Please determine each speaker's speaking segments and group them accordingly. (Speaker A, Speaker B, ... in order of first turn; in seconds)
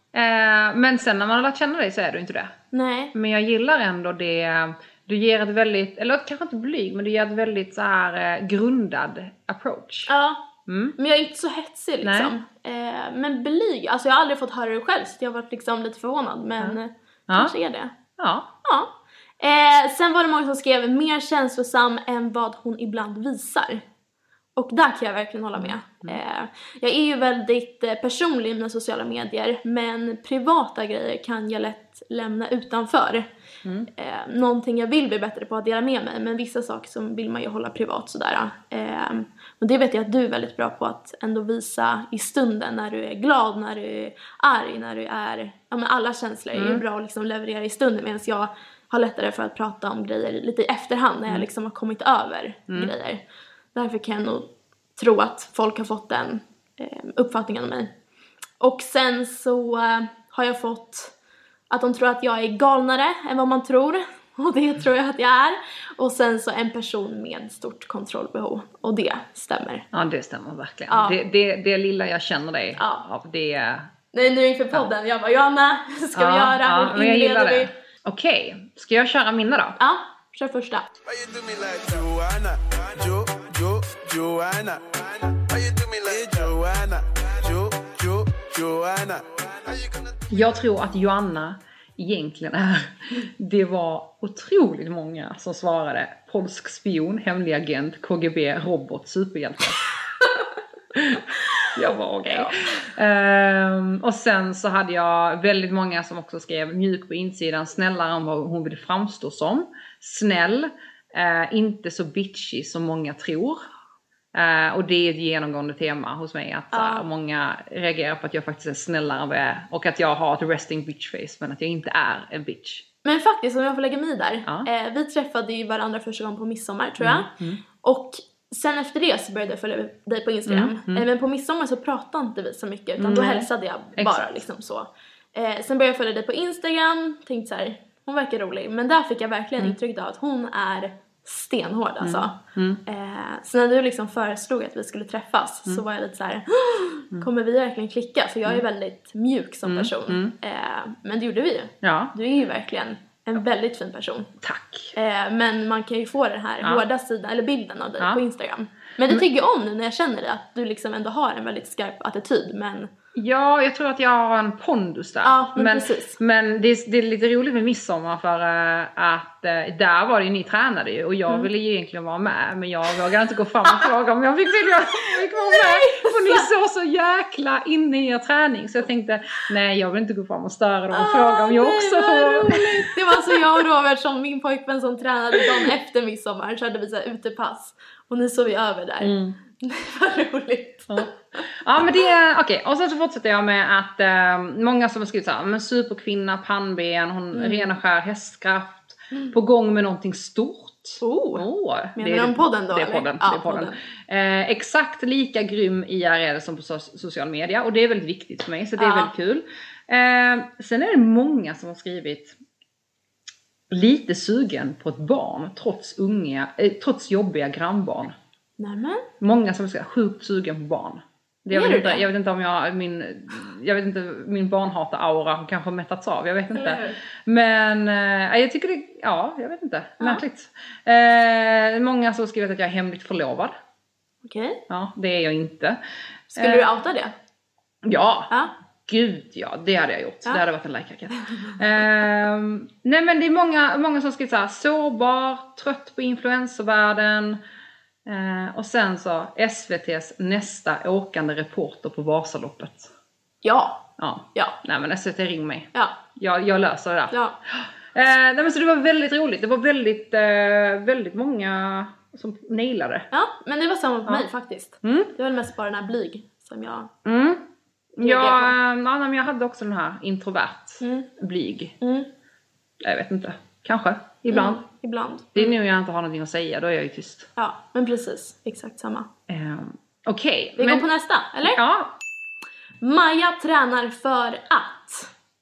Speaker A: 0.1-2.6, 3.1-10.1, 10.7-11.0, 12.0-12.3, 17.3-17.5, 18.2-18.5, 25.6-26.2, 46.5-46.8, 69.9-73.9, 76.2-79.8, 90.3-99.9, 100.9-113.6, 114.3-122.8, 127.0-127.6, 130.5-131.1, 133.0-134.4, 142.0-142.8, 149.7-150.3, 151.8-152.1, 154.4-154.9, 163.2-183.5, 189.0-189.4, 190.9-212.4, 213.7-218.2, 219.2-233.5, 234.7-235.8, 236.3-236.7, 237.8-238.3, 238.9-247.4, 248.1-252.9, 254.0-263.1, 264.8-265.1, 267.1-267.4, 268.0-271.8, 272.8-274.6, 275.4-277.3, 279.3-280.9, 281.4-282.0
Speaker B: 2.7-3.1, 10.1-10.5, 11.0-17.9, 18.6-23.8, 24.6-33.3, 33.9-57.9, 58.6-61.1, 61.7-69.9, 70.9-71.2, 72.8-73.0, 74.1-77.7, 79.8-80.9, 116.7-117.1, 123.0-154.3, 154.9-162.9, 165.2-166.2, 175.3-176.5, 180.9-191.1, 197.3-197.7, 201.0-203.8, 208.8-209.1, 218.6-219.1, 221.5-222.1, 226.5-227.0, 234.2-234.6, 236.3-237.1, 253.4-254.6, 255.7-256.0, 257.1-257.4, 263.1-266.9, 268.0-268.6, 270.8-271.1, 271.8-272.1, 274.3-275.5, 277.4-279.1, 280.6-281.6, 282.8-285.1
Speaker C: 81.1-90.2